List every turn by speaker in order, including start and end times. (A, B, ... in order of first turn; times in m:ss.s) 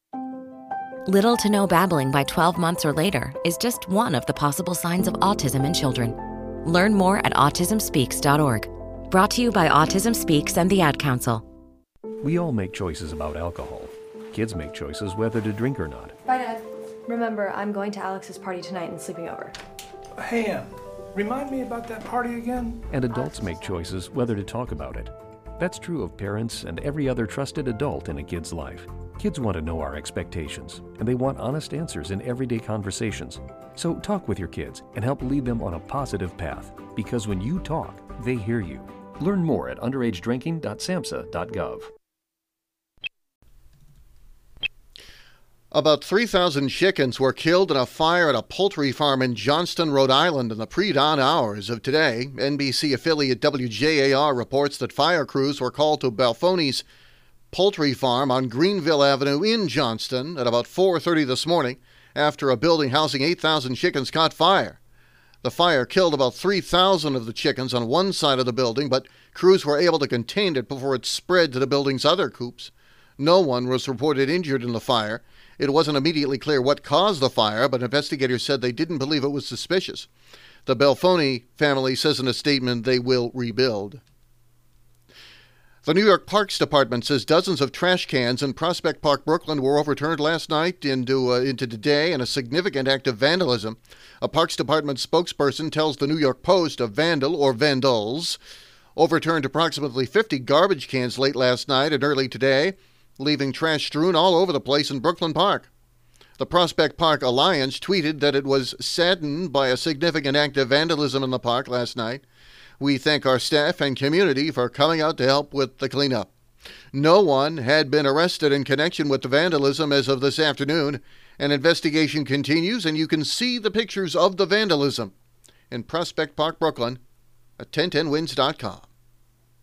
0:01.0-0:11.4 A
0:12.2-0:16.2 B
0:16.2-0:19.5 C
0:20.2-0:22.8 D
0:22.9-0:41.9 B
0:45.7-0:56.8 E
0:57.5-1:04.8 E
1:05.4-1:20.1 E
1:20.6-1:24.0 E
1:25.8-1:38.4 E
1:39.0-1:45.7 E
1:46.4-1:52.2 E
1:52.8-1:56.3 E
1:56.9-2:05.1 E
2:05.7-2:07.0 E
2:07.6-2:08.9 E